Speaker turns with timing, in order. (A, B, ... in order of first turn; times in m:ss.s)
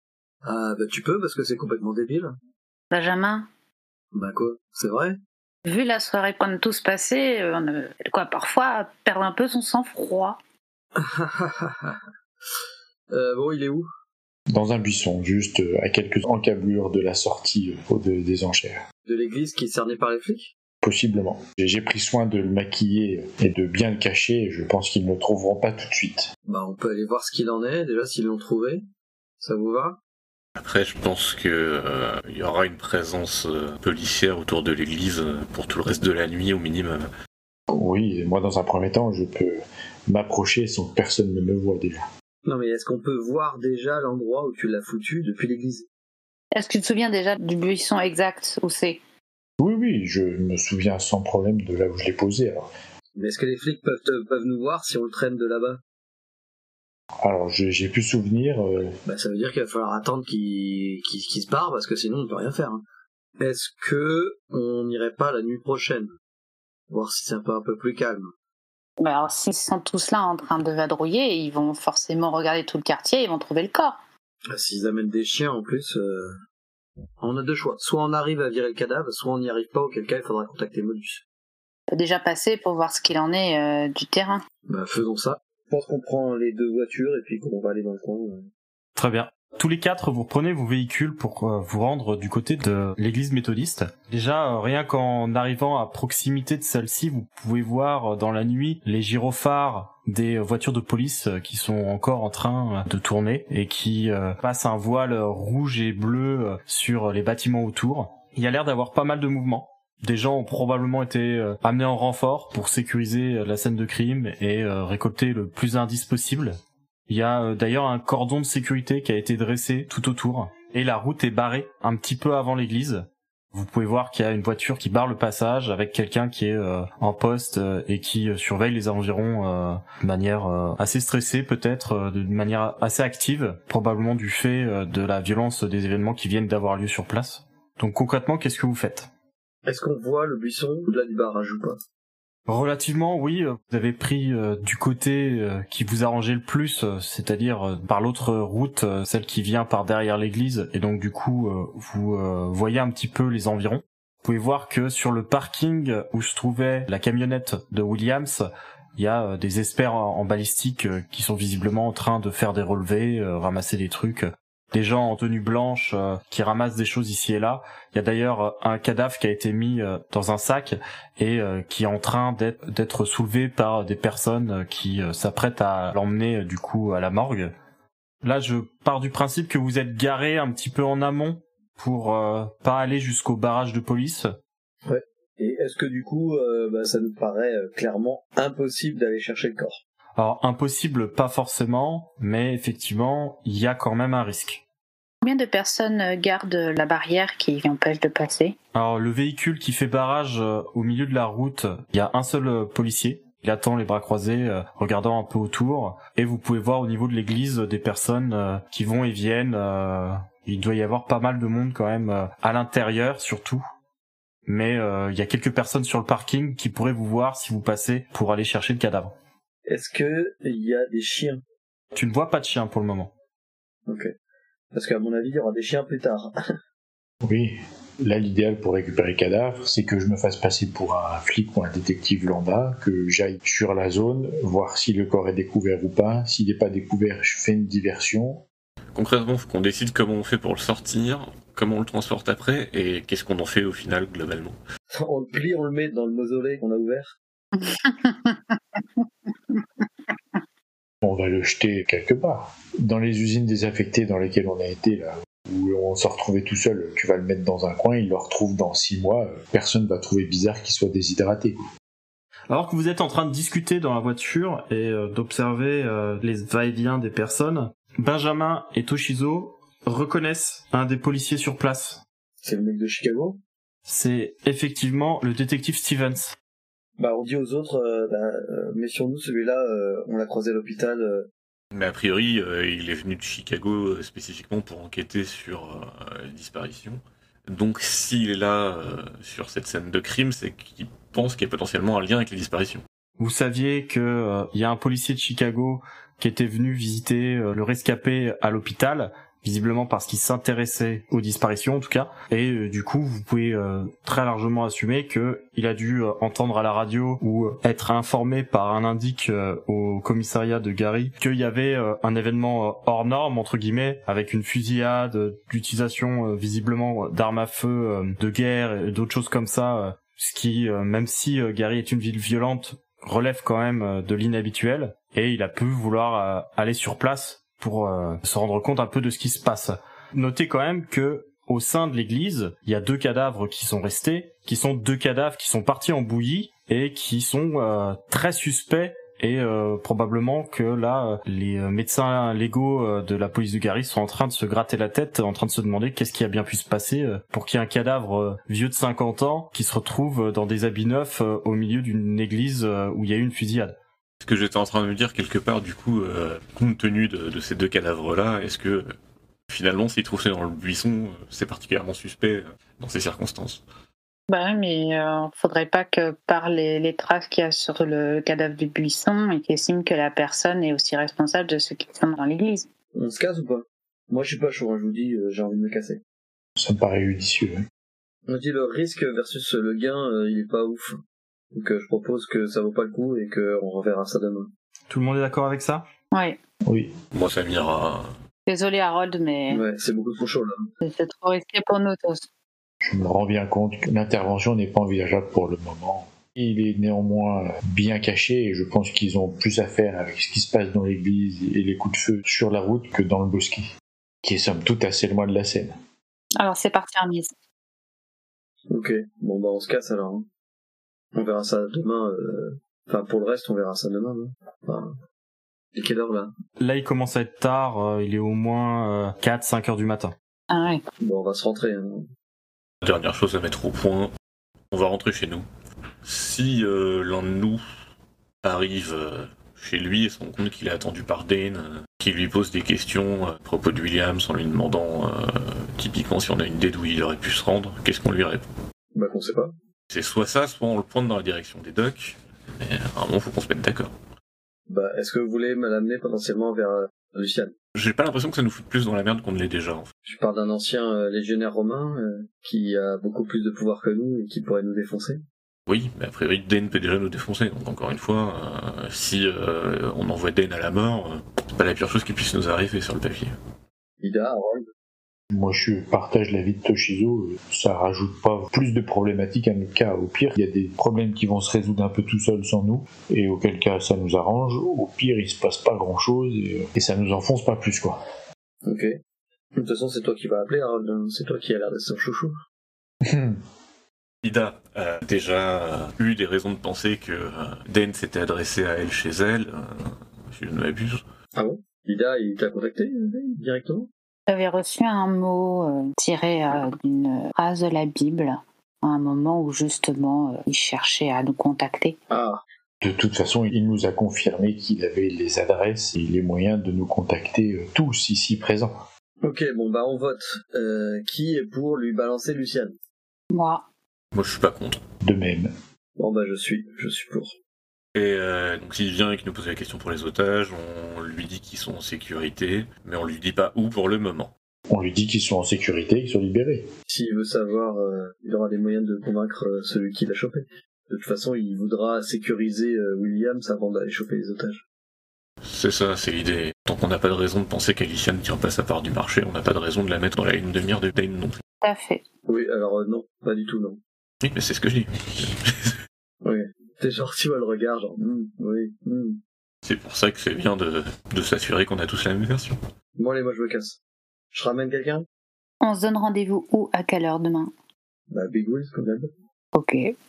0:00.4-0:02.3 A
0:02.9-0:03.5 B
0:04.1-0:05.2 A
0:05.6-0:10.4 B
0:11.0-0:12.0 A
0:13.1-0:13.9 A
0:14.5-0:18.8 C
0:19.0-0:20.5 A
0:20.8-0:26.3 C
0:26.5-0:28.8 A
0:29.4-0:30.0 A
0:30.6-0:37.1 D
0:37.7-0:42.0 C
0:42.4-0:45.9 A
0:46.5-0:49.0 B
0:49.6-0:52.7 C
0:53.2-0:55.8 A
0:57.2-0:58.9 C
0:59.0-1:02.8 A
1:03.4-1:06.1 A
1:06.9-1:08.3 A
1:09.0-1:14.0 B
1:14.5-1:16.4 A
1:17.2-1:21.2 A
1:21.9-1:24.4 B
1:24.7-1:28.5 A
1:29.0-1:56.6 E
1:57.1-2:19.1 E
2:19.6-2:21.8 A
2:22.5-2:57.5 E
2:58.2-3:04.3 E
3:04.9-3:09.8 A
3:10.2-3:14.6 E
3:15.2-3:18.6 B
3:18.7-3:33.6 E
3:34.5-3:39.1 E
3:39.7-3:41.4 A
3:41.9-3:43.1 E
3:43.9-3:44.1 A
3:44.7-3:46.4 A
3:47.2-3:58.4 C
3:59.0-4:04.6 D
4:04.9-4:07.2 A
4:07.6-4:09.0 B
4:11.0-4:21.6 C
4:22.5-4:32.0 E
4:32.4-4:33.4 A
4:33.8-4:36.4 E
4:37.0-4:41.3 A
4:41.7-4:52.8 D
4:53.2-5:53.8 E
5:54.2-5:58.9 D
5:59.5-6:03.6 D
6:04.3-6:12.7 B
6:13.0-6:16.0 A
6:16.6-6:17.6 C
6:18.3-6:21.0 A
6:21.5-6:24.5 A
6:24.9-6:25.8 E
6:26.1-6:26.4 B
6:27.1-6:28.0 D
6:28.5-6:29.6 B
6:29.5-6:30.7 A
6:30.8-6:32.3 B
6:32.8-6:43.7 C
6:44.2-6:45.7 C
6:46.4-6:47.3 B
6:48.7-6:50.3 A
6:51.1-6:54.9 A
6:55.8-6:56.3 A
6:56.6-7:00.2 E
7:00.5-7:00.8 B
7:01.0-7:02.1 A
7:02.8-7:04.1 D
7:04.7-7:05.5 D
7:06.0-7:07.6 D
7:08.4-7:18.5 D
7:18.9-7:19.5 A
7:19.9-7:23.9 D
7:24.7-7:27.5 A
7:27.8-7:29.9 D
7:30.1-7:35.2 A
7:35.7-7:43.4 D
7:44.0-7:44.6 A
7:45.3-7:58.0 C
7:58.6-7:58.9 A
7:59.6-8:02.4 A
8:03.0-8:03.4 C
8:04.2-8:11.0 D
8:11.4-8:13.9 A
8:14.3-8:22.0 B
8:22.1-8:22.4 A
8:22.8-8:28.8 C
8:29.2-8:32.8 A
8:33.3-8:33.6 B
8:34.1-8:34.8 D
8:35.0-8:35.5 C
8:36.0-8:37.4 A
8:37.9-8:44.3 D
8:44.7-8:46.7 C
8:46.9-8:54.6 A
8:55.4-9:01.4 D
9:01.6-9:02.0 B
9:02.3-9:03.8 A
9:04.2-9:05.8 D
9:06.2-9:09.2 A
9:09.6-9:12.6 D
9:13.0-9:13.8 A
9:14.3-9:15.0 A
9:15.6-9:17.5 B
9:18.1-9:19.1 A
9:19.6-9:19.9 B